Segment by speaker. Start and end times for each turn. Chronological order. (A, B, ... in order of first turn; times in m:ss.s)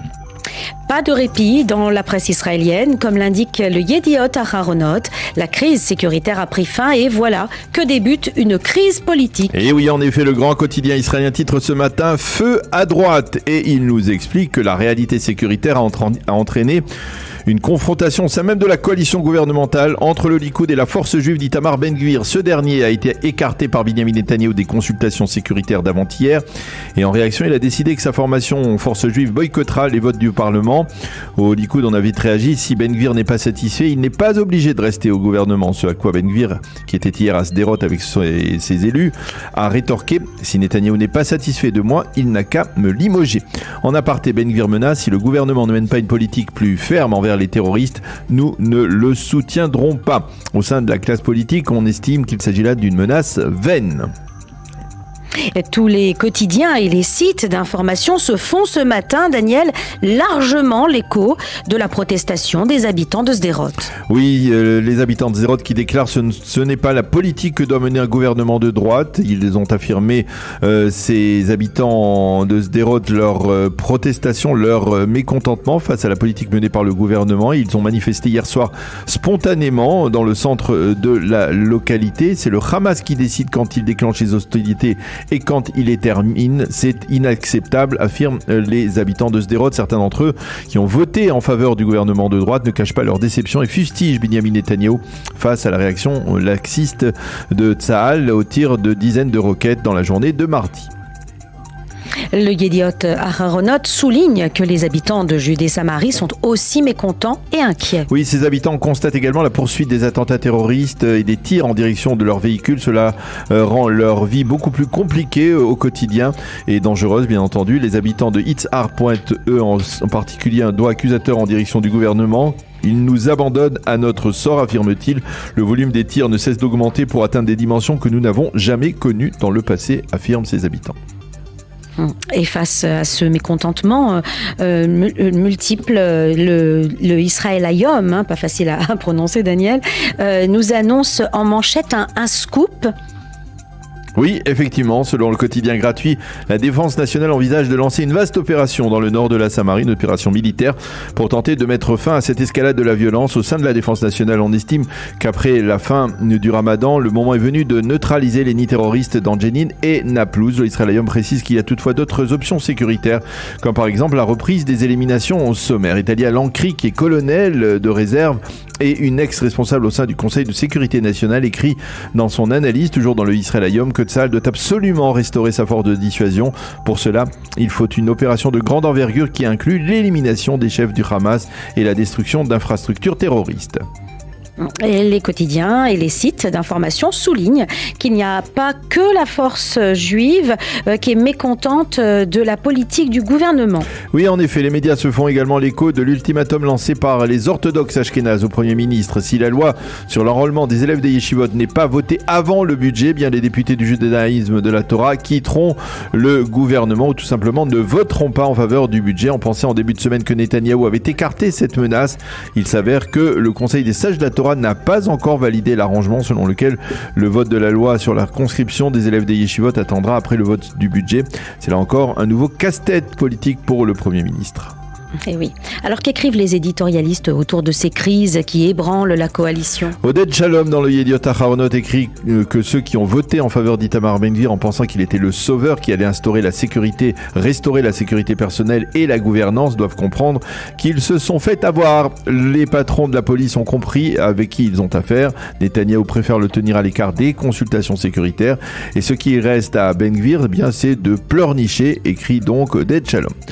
0:00.9-0:09.5 A
0:09.5-0:16.8 B
0:17.5-0:26.4 B
0:27.0-0:54.1 B
0:55.5-1:03.9 A
1:04.1-1:40.9 B
1:42.3-1:48.1 A
1:48.1-2:11.0 B
2:12.0-2:22.9 A
2:24.2-3:03.8 B
3:04.6-3:13.9 A
3:14.1-3:44.7 B
3:45.3-3:50.0 A
3:50.0-4:13.3 B